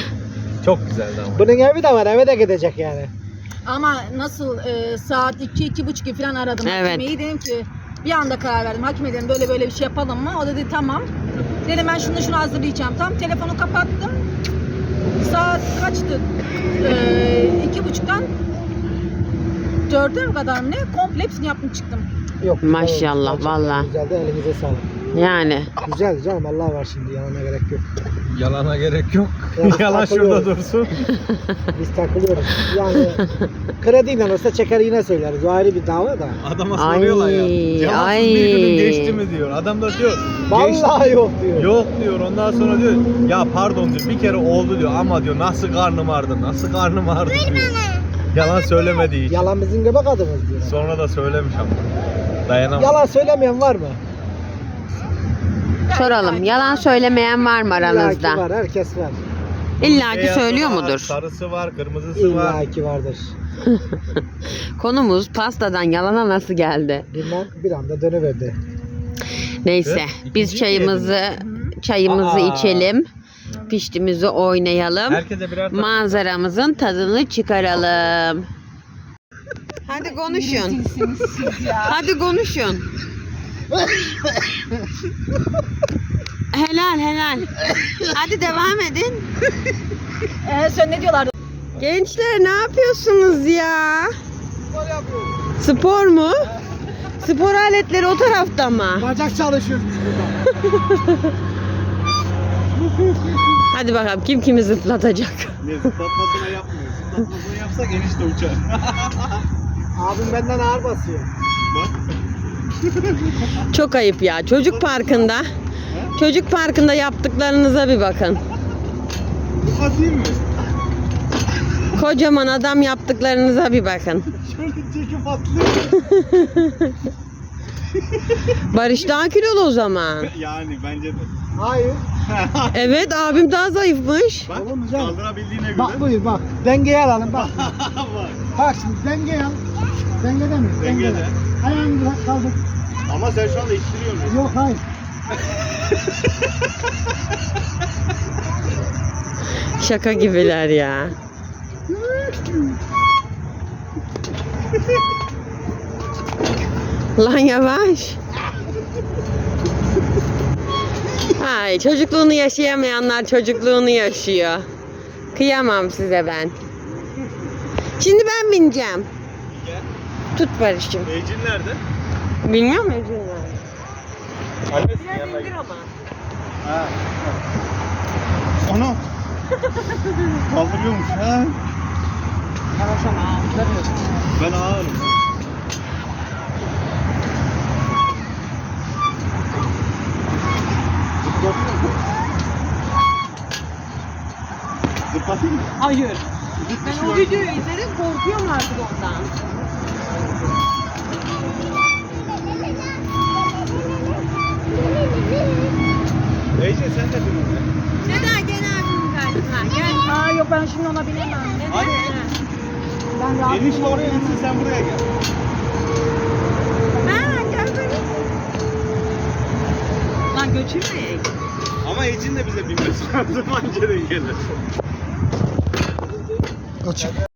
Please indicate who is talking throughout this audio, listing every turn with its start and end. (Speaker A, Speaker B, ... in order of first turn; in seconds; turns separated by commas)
Speaker A: 0.6-1.4, Speaker B: 1.3-3.1, Speaker C: 3.6-11.1, Speaker D: 6.6-7.1, Speaker C: 11.6-14.2, Speaker C: 15.2-18.3, Speaker C: 19.9-22.1, Speaker B: 22.4-24.9, Speaker D: 22.6-23.9, Speaker D: 25.1-25.7, Speaker B: 25.8-27.8, Speaker A: 28.3-31.2, Speaker B: 29.5-30.5, Speaker B: 31.7-33.2, Speaker B: 33.8-36.4, Speaker A: 36.4-40.9, Speaker D: 36.7-39.2, Speaker B: 40.5-41.7, Speaker A: 41.5-47.8, Speaker A: 48.3-49.4, Speaker B: 49.3-50.8, Speaker A: 50.6-51.9, Speaker A: 52.5-53.0, Speaker B: 52.8-54.0, Speaker C: 55.9-56.8, Speaker D: 55.9-58.4, Speaker B: 57.8-59.2, Speaker D: 59.8-61.1, Speaker A: 59.8-62.6, Speaker B: 62.1-63.3, Speaker D: 63.7-64.2, Speaker D: 64.8-67.1, Speaker B: 67.1-68.6, Speaker D: 69.6-73.1, Speaker A: 69.8-71.2, Speaker A: 72.0-72.9, Speaker D: 73.6-78.5, Speaker A: 75.1-76.2, Speaker D: 79.8-80.8, Speaker C: 79.9-82.0, Speaker D: 81.6-82.9, Speaker D: 86.5-89.3, Speaker C: 90.4-91.3, Speaker D: 91.7-94.1, Speaker B: 94.7-95.5, Speaker D: 95.6-96.4, Speaker D: 97.2-99.1, Speaker B: 99.0-100.4, Speaker D: 100.5-101.3, Speaker D: 103.6-105.9, Speaker A: 105.6-109.4, Speaker B: 110.0-111.3, Speaker D: 113.6-115.5, Speaker A: 114.7-115.0, Speaker D: 116.1-118.4, Speaker A: 119.7-120.4, Speaker D: 121.9-124.3, Speaker A: 124.4-125.9, Speaker D: 126.0-127.0, Speaker D: 128.6-130.3, Speaker A: 130.2-131.3, Speaker B: 131.6-132.1, Speaker A: 132.3-132.9, Speaker D: 132.7-134.5, Speaker A: 134.5-136.0, Speaker B: 134.5-135.2, Speaker B: 135.7-137.8, Speaker A: 137.3-138.4, Speaker B: 138.5-139.6, Speaker B: 140.2-142.6, Speaker A: 140.8-141.3, Speaker A: 143.1-144.4, Speaker B: 144.2-144.8, Speaker D: 149.7-151.1, Speaker D: 157.2-158.2, Speaker D: 161.3-164.7, Speaker D: 165.3-166.6, Speaker D: 168.0-169.1, Speaker D: 170.3-171.1, Speaker A: 171.0-171.8, Speaker D: 172.4-173.6, Speaker A: 174.7-175.5, Speaker D: 174.9-175.9, Speaker A: 176.6-177.3, Speaker A: 178.6-179.0, Speaker A: 180.3-181.6, Speaker D: 182.8-183.9, Speaker A: 184.3-185.2, Speaker A: 191.2-191.9, Speaker A: 195.1-195.7, Speaker D: 195.8-196.2, Speaker A: 196.6-197.4, Speaker D: 196.8-199.3, Speaker C: 204.8-205.6, Speaker A: 206.6-207.7, Speaker D: 208.0-210.1, Speaker C: 209.9-211.7, Speaker D: 211.6-212.3, Speaker A: 211.7-212.2, Speaker C: 213.1-214.5, Speaker A: 213.4-215.1, Speaker D: 217.0-218.1, Speaker C: 217.1-217.3, Speaker D: 220.3-221.2, Speaker C: 220.4-220.8, Speaker A: 221.8-224.4, Speaker B: 226.8-227.2